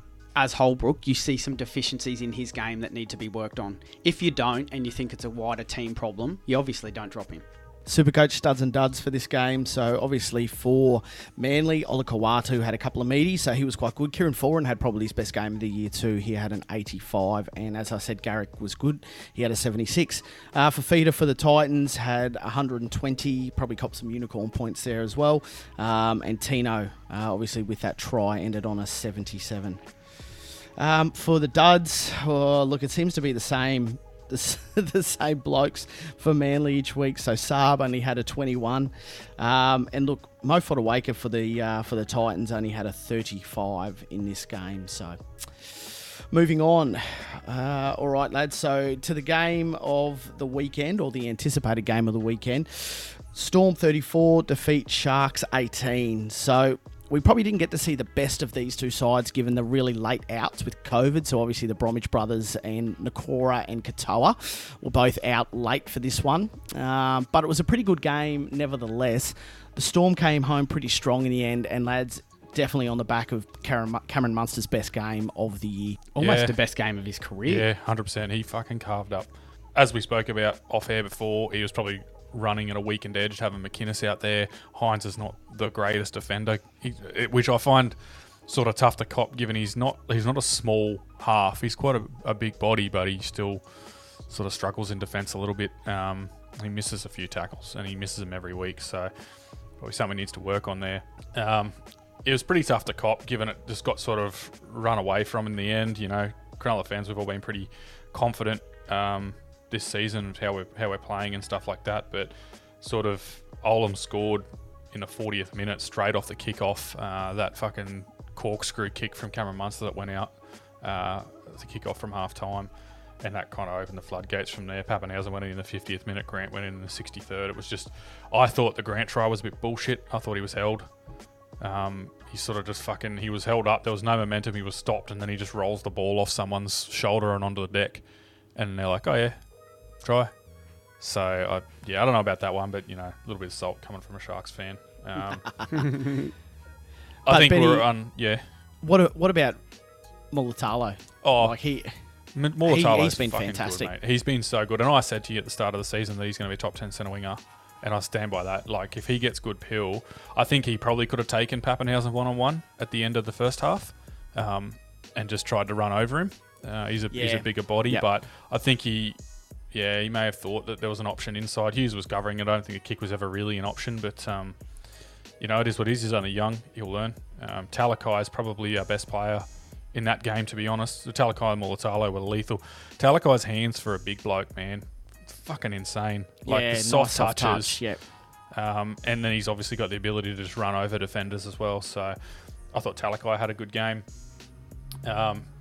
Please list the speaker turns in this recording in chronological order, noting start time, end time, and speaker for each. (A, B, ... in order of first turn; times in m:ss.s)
0:00.4-0:07.4 A
0:07.9-0:29.8 B
0:30.8-1:16.0 B
1:16.2-1:17.6 A
1:16.2-1:16.6 C
1:17.4-1:28.0 C
1:28.5-1:33.6 C
1:34.3-1:39.1 C
1:39.8-2:10.9 C
2:11.6-2:18.0 C
2:18.6-2:19.4 C
2:20.0-2:20.3 C
2:21.0-2:25.5 C
2:25.8-2:26.1 A
2:27.3-2:27.9 B
2:27.3-2:28.4 C
2:28.8-2:29.6 B
2:30.3-2:31.9 B
2:31.2-2:31.6 C
2:32.4-2:49.2 C
2:32.6-2:33.9 B
2:47.1-2:48.1 B
2:49.7-2:54.6 C
2:55.4-3:07.8 C
3:06.4-3:08.0 B
3:08.5-3:12.2 C
3:12.7-3:14.0 C
3:15.0-3:15.5 C